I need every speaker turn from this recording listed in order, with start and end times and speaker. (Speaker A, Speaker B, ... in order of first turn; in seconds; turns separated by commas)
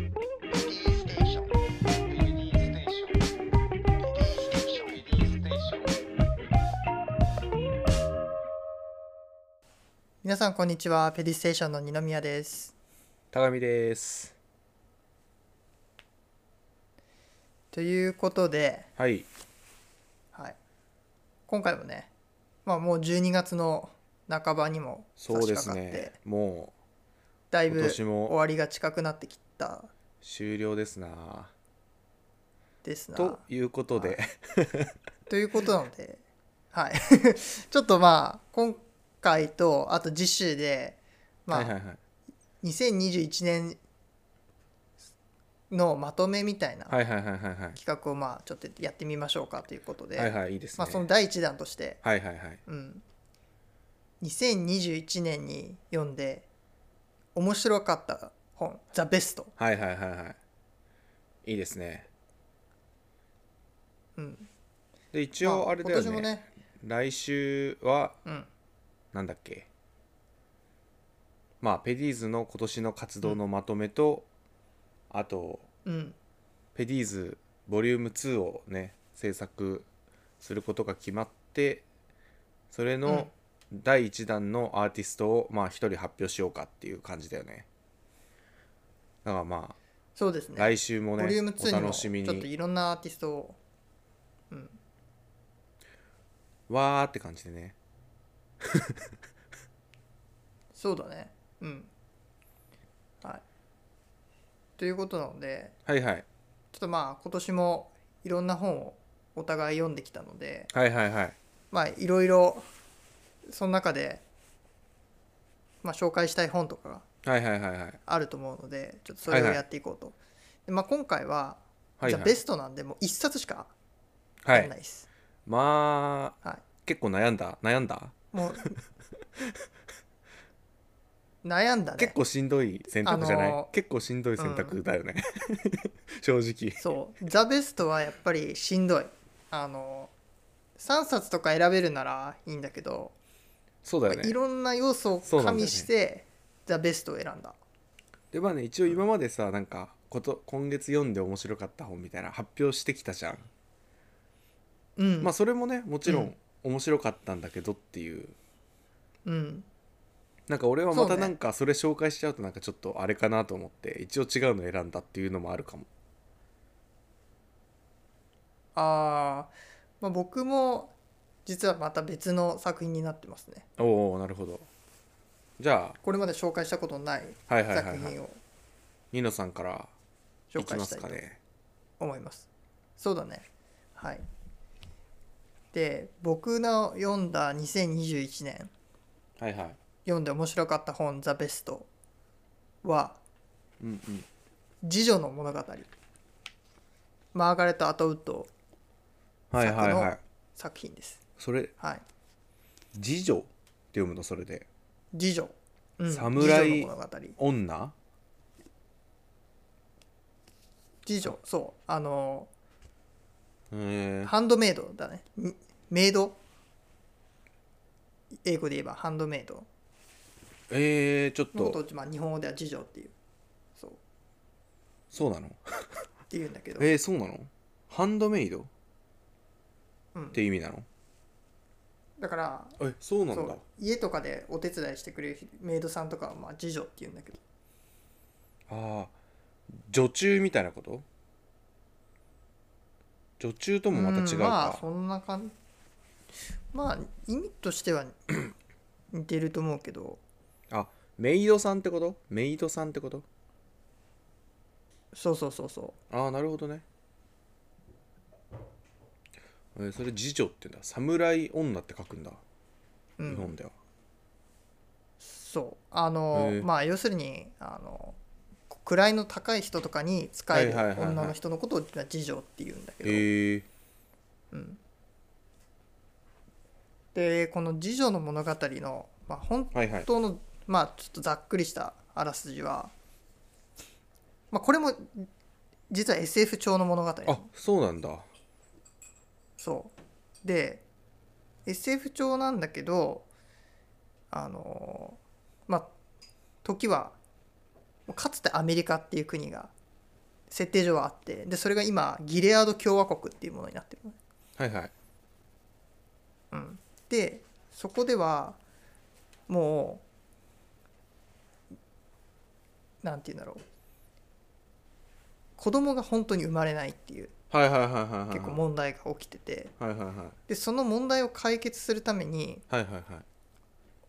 Speaker A: 1.0-1.3, Speaker A: 2.1-3.1, Speaker A: 4.2-5.9, Speaker B: 10.2-12.7, Speaker A: 13.3-14.3, Speaker B: 17.7-18.9, Speaker A: 19.0-19.3, Speaker B: 21.5-22.1, Speaker B: 22.6-26.1, Speaker A: 25.2-26.7, Speaker B: 27.5-29.9, Speaker A: 27.7-28.4, Speaker A: 30.2-31.5, Speaker B: 32.8-33.4, Speaker A: 33.1-34.9, Speaker B: 35.3-36.2, Speaker B: 36.7-41.8, Speaker A: 41.5-42.0, Speaker B: 42.6-43.8, Speaker B: 45.7-47.0, Speaker A: 46.9-47.8, Speaker B: 47.8-52.0, Speaker A: 50.2-51.1, Speaker A: 52.0-52.6, Speaker B: 52.7-53.0, Speaker B: 54.2-56.5, Speaker B: 57.4-59.5, Speaker A: 59.6-60.4, Speaker A: 61.4-62.1, Speaker B: 64.2-64.5, Speaker A: 65.1-68.2, Speaker B: 65.4-66.5, Speaker A: 69.1-69.7, Speaker A: 71.6-74.3, Speaker A: 75.1-75.7, Speaker B: 75.8-76.2, Speaker A: 76.8-79.9, Speaker A: 80.4-81.8, Speaker A: 82.7-87.7, Speaker B: 83.1-83.3, Speaker A: 89.2-89.8, Speaker B: 90.2-93.6, Speaker A: 90.6-92.5, Speaker B: 94.5-94.8, Speaker A: 96.7-97.8, Speaker A: 98.6-99.1, Speaker B: 100.7-101.9, Speaker B: 104.8-105.8, Speaker A: 105.9-106.3, Speaker B: 106.7-110.7, Speaker A: 110.7-111.4, Speaker B: 111.7-112.7, Speaker B: 113.5-114.2, Speaker B: 115.8-117.0, Speaker A: 117.2-118.0, Speaker B: 118.1-123.7, Speaker A: 119.3-119.6, Speaker A: 122.0-122.4, Speaker A: 124.5-124.7, Speaker B: 124.5-125.1, Speaker A: 125.5-128.3, Speaker B: 128.3-128.8, Speaker B: 131.4-132.2, Speaker A: 132.0-136.8, Speaker B: 133.1-133.7, Speaker B: 134.4-134.8, Speaker B: 136.8-140.1, Speaker B: 140.8-143.2, Speaker A: 143.8-144.4, Speaker B: 144.1-147.6, Speaker A: 145.2-145.9, Speaker A: 148.3-153.5, Speaker B: 155.0-155.3, Speaker A: 155.2-158.4, Speaker B: 156.1-156.3, Speaker B: 159.2-159.7, Speaker A: 160.5-165.9, Speaker B: 160.9-161.3, Speaker B: 168.8-170.9, Speaker B: 171.5-173.7, Speaker A: 173.8-174.7, Speaker A: 175.6-176.0, Speaker B: 176.0-178.4, Speaker A: 177.5-178.2, Speaker A: 179.1-179.9, Speaker B: 180.5-181.2, Speaker A: 180.6-181.4, Speaker B: 182.0-184.2, Speaker B: 185.7-188.7, Speaker A: 189.4-189.8, Speaker B: 190.1-191.9, Speaker B: 192.8-193.2, Speaker A: 193.8-194.3, Speaker B: 194.8-195.9, Speaker B: 197.3-198.5, Speaker A: 199.5-200.2, Speaker B: 199.6-201.2, Speaker A: 201.4-201.7, Speaker B: 201.8-202.0, Speaker A: 202.9-204.7, Speaker B: 205.1-207.4, Speaker A: 206.1-207.9, Speaker B: 211.1-212.5, Speaker A: 213.7-214.3, Speaker B: 214.2-216.4, Speaker B: 218.4-219.7, Speaker A: 220.7-221.8, Speaker B: 221.5-223.1, Speaker A: 225.1-226.1, Speaker B: 226.3-226.9, Speaker A: 226.8-228.7, Speaker B: 230.2-230.4, Speaker A: 230.3-230.9, Speaker B: 232.2-232.8, Speaker A: 232.8-233.6, Speaker B: 233.3-237.4, Speaker A: 238.7-239.1, Speaker A: 239.7-241.1, Speaker A: 243.4-244.8, Speaker B: 243.9-245.5, Speaker B: 246.7-248.2, Speaker B: 249.1-250.2, Speaker A: 250.7-253.2, Speaker B: 255.1-256.0, Speaker A: 256.1-256.9, Speaker A: 259.8-262.4, Speaker B: 263.2-263.5, Speaker A: 263.3-263.7, Speaker B: 265.2-268.2, Speaker A: 266.3-266.7, Speaker B: 268.7-273.3, Speaker A: 270.5-271.4, Speaker A: 273.0-273.7, Speaker B: 274.5-274.8, Speaker B: 277.1-282.9, Speaker A: 279.7-280.1, Speaker B: 284.5-285.3, Speaker B: 285.9-287.5, Speaker A: 287.3-288.3, Speaker B: 289.6-290.8, Speaker B: 291.7-293.3, Speaker B: 294.3-295.9, Speaker B: 296.6-297.2, Speaker B: 298.1-299.7, Speaker B: 300.5-304.2, Speaker A: 304.6-304.9, Speaker B: 306.5-308.6, Speaker B: 309.5-310.0, Speaker B: 313.0-313.6, Speaker B: 315.6-317.3, Speaker A: 317.5-318.6, Speaker B: 318.3-319.7, Speaker A: 319.8-320.4, Speaker B: 320.5-322.6, Speaker A: 322.7-323.2